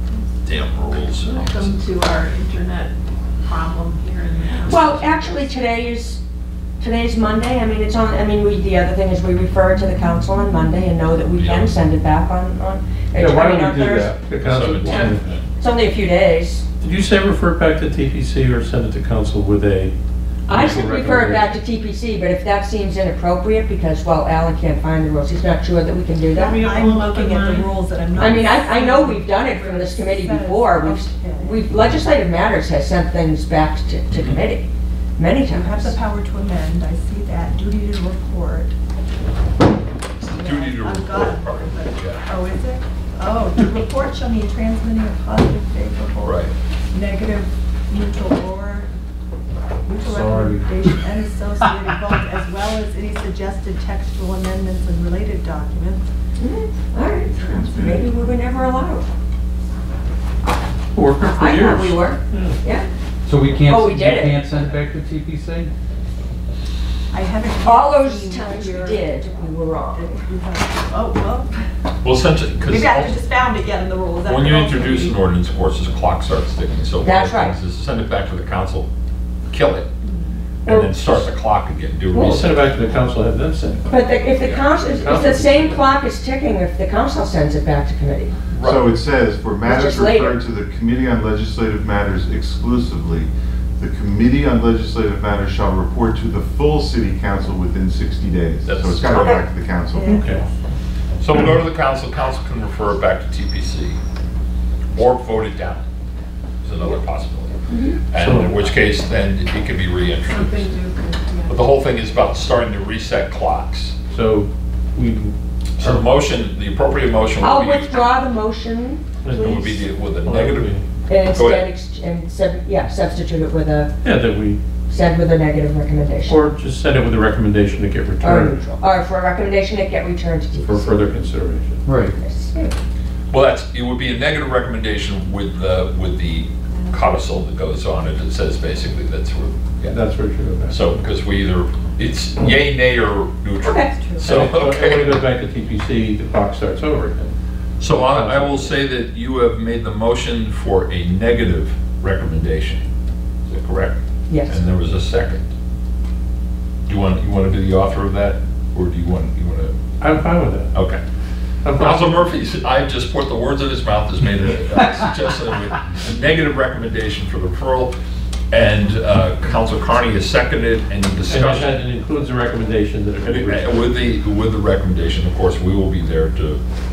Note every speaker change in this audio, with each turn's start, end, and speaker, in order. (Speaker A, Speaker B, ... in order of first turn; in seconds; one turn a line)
Speaker A: 0.4-1.8
Speaker B: 1.2-2.9
Speaker B: 3.4-5.5
Speaker C: 4.6-6.2
Speaker C: 6.8-14.1
Speaker A: 11.3-11.8
Speaker D: 13.2-15.4
Speaker A: 14.4-15.1
Speaker C: 14.8-16.6
Speaker D: 16.8-19.9
Speaker C: 20.5-26.7
Speaker D: 20.5-21.6
Speaker B: 26.3-28.3
Speaker E: 26.4-31.8
Speaker C: 28.1-36.0
Speaker A: 34.1-34.4
Speaker E: 35.5-38.8
Speaker A: 40.2-42.2
Speaker E: 40.2-48.9
Speaker A: 46.2-46.5
Speaker E: 49.9-56.1
Speaker D: 50.2-50.6
Speaker C: 56.4-59.0
Speaker F: 57.3-58.1
Speaker E: 57.5-58.2
Speaker D: 60.9-62.6
Speaker C: 61.3-62.9
Speaker G: 63.2-65.7
Speaker C: 63.6-64.4
Speaker E: 67.1-71.6
Speaker C: 67.6-70.2
Speaker A: 72.0-73.1
Speaker E: 72.7-75.2
Speaker A: 74.3-78.9
Speaker C: 77.0-77.5
Speaker A: 79.5-79.9
Speaker E: 80.0-80.4
Speaker A: 80.6-82.7
Speaker D: 82.1-83.9
Speaker C: 83.9-88.3
Speaker A: 84.4-84.7
Speaker D: 85.0-85.9
Speaker A: 88.5-88.9
Speaker F: 88.6-100.2
Speaker C: 89.6-90.4
Speaker A: 98.7-99.4
Speaker C: 99.1-99.4
Speaker E: 99.9-100.5
Speaker D: 100.1-100.4
Speaker A: 101.2-104.0
Speaker A: 104.9-105.8
Speaker A: 106.6-107.6
Speaker C: 107.7-108.0
Speaker A: 108.1-110.8
Speaker D: 108.2-108.7
Speaker B: 110.3-111.5
Speaker A: 111.5-114.0
Speaker D: 114.1-116.0
Speaker A: 115.8-118.0
Speaker C: 117.4-119.7
Speaker D: 119.2-120.8
Speaker A: 119.3-120.7
Speaker C: 121.1-123.9
Speaker A: 121.3-121.7
Speaker D: 124.0-124.6
Speaker C: 124.9-126.4
Speaker D: 126.3-128.5
Speaker C: 128.2-130.9
Speaker D: 130.6-131.8
Speaker G: 131.8-132.1
Speaker C: 132.1-132.8
Speaker A: 133.3-140.0
Speaker E: 136.7-137.2
Speaker D: 139.8-140.9
Speaker A: 140.7-145.3
Speaker C: 143.6-144.0
Speaker E: 143.9-144.3
Speaker D: 144.2-147.3
Speaker A: 147.8-152.8
Speaker D: 147.8-148.7
Speaker A: 153.5-155.5
Speaker C: 154.3-154.6
Speaker A: 156.9-159.8
Speaker D: 160.0-160.8
Speaker A: 160.7-161.0
Speaker D: 161.6-162.2
Speaker A: 161.7-167.9
Speaker A: 168.5-171.8
Speaker D: 171.3-173.8
Speaker A: 173.2-176.6